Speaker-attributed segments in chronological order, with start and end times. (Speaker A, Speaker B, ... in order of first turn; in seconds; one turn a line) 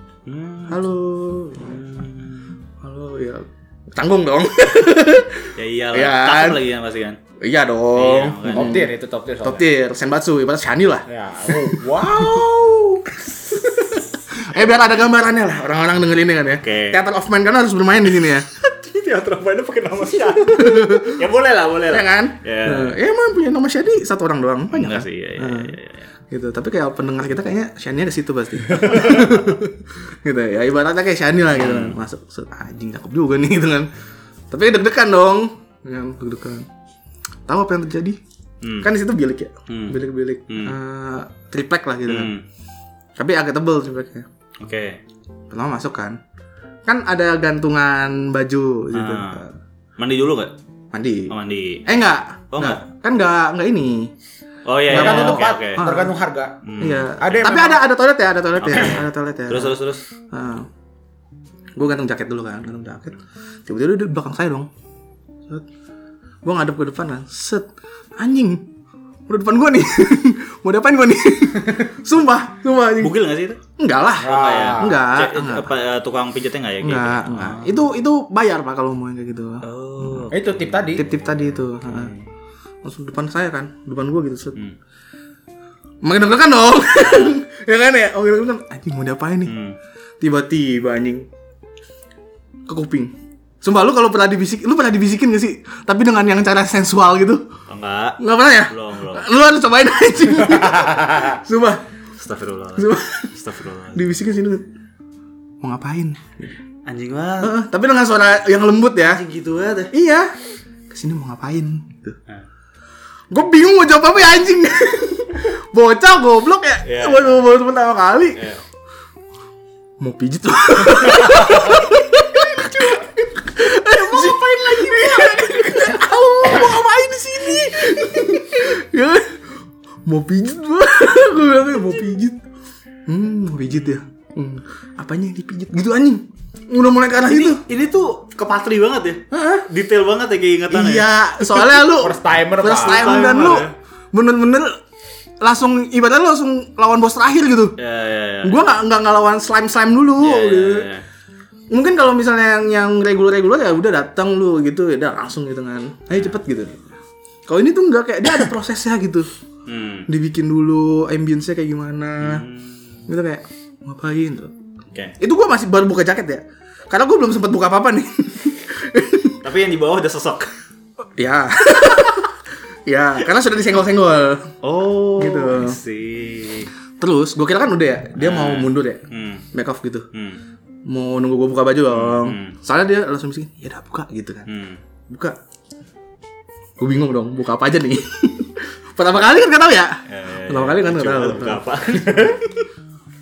Speaker A: 0.3-0.8
Speaker B: 0.7-1.8
Speaker A: 1.6-2.5
Speaker B: 2.8-6.6
Speaker A: 5.6-7.2
Speaker B: 7.4-8.9
Speaker A: 8.0-8.8
Speaker C: 8.5-9.7
Speaker B: 9.4-12.4
Speaker C: 11.1-13.2
Speaker B: 14.3-18.5
Speaker A: 16.6-17.0
Speaker A: 18.5-23.0
Speaker B: 20.4-21.2
Speaker B: 21.9-25.8
Speaker A: 24.7-26.1
Speaker B: 26.3-33.9
Speaker A: 28.7-29.5
Speaker A: 31.5-32.0
Speaker B: 34.5-36.7
Speaker B: 37.5-38.2
Speaker A: 38.6-38.9
Speaker B: 38.8-42.3
Speaker A: 39.7-40.8
Speaker A: 42.1-42.4
Speaker B: 43.2-44.3
Speaker A: 44.6-45.0
Speaker B: 45.5-46.2
Speaker B: 46.9-49.5
Speaker A: 48.9-49.4
Speaker A: 50.0-50.5
Speaker B: 50.9-51.3
Speaker A: 51.3-51.9
Speaker B: 51.9-54.1
Speaker A: 52.5-52.8
Speaker A: 54.7-55.9
Speaker B: 54.9-56.1
Speaker C: 54.9-56.6
Speaker A: 56.6-57.7
Speaker B: 56.8-59.8
Speaker C: 57.2-57.8
Speaker A: 58.6-60.0
Speaker B: 60.3-60.7
Speaker B: 61.8-64.7
Speaker B: 66.4-68.7
Speaker B: 69.3-73.2
Speaker A: 73.0-73.6
Speaker B: 73.8-75.7
Speaker A: 74.2-77.8
Speaker C: 74.2-75.0
Speaker B: 76.8-80.3
Speaker A: 79.6-82.3
Speaker C: 80.3-81.1
Speaker B: 81.0-82.1
Speaker B: 82.8-84.6
Speaker B: 86.0-89.5
Speaker A: 86.9-87.4
Speaker A: 89.5-89.8
Speaker B: 90.2-91.3
Speaker B: 92.7-97.5
Speaker A: 97.7-99.3
Speaker B: 98.2-101.8
Speaker A: 102.2-104.1
Speaker B: 102.8-103.3
Speaker B: 103.9-104.7
Speaker B: 105.6-106.3
Speaker A: 106.9-107.5
Speaker B: 107.4-109.2
Speaker A: 109.0-109.9
Speaker B: 109.9-110.3
Speaker B: 110.9-112.2
Speaker B: 113.3-118.4
Speaker A: 116.8-117.5
Speaker A: 118.3-118.6
Speaker B: 120.0-129.4
Speaker A: 121.0-121.9
Speaker B: 130.1-132.4
Speaker B: 133.1-137.6
Speaker A: 137.2-141.6
Speaker B: 139.3-139.7
Speaker B: 140.7-144.8
Speaker C: 141.9-143.5
Speaker A: 142.7-143.7
Speaker B: 145.4-147.8
Speaker A: 147.8-148.8
Speaker B: 148.4-150.9
Speaker A: 150.2-151.1
Speaker B: 151.7-156.8
Speaker B: 157.5-159.3
Speaker A: 159.7-160.1
Speaker B: 160.1-162.4
Speaker A: 162.2-163.1
Speaker B: 163.1-164.5
Speaker B: 165.2-169.4
Speaker A: 169.4-170.5
Speaker B: 171.2-172.3
Speaker B: 172.9-174.5
Speaker A: 174.6-176.7
Speaker B: 175.2-175.8
Speaker B: 177.0-180.1
Speaker A: 178.2-179.5
Speaker A: 180.1-180.4
Speaker B: 180.9-184.5
Speaker A: 181.9-182.6
Speaker A: 184.5-184.8
Speaker B: 185.1-185.4
Speaker B: 186.8-192.2
Speaker A: 190.1-192.7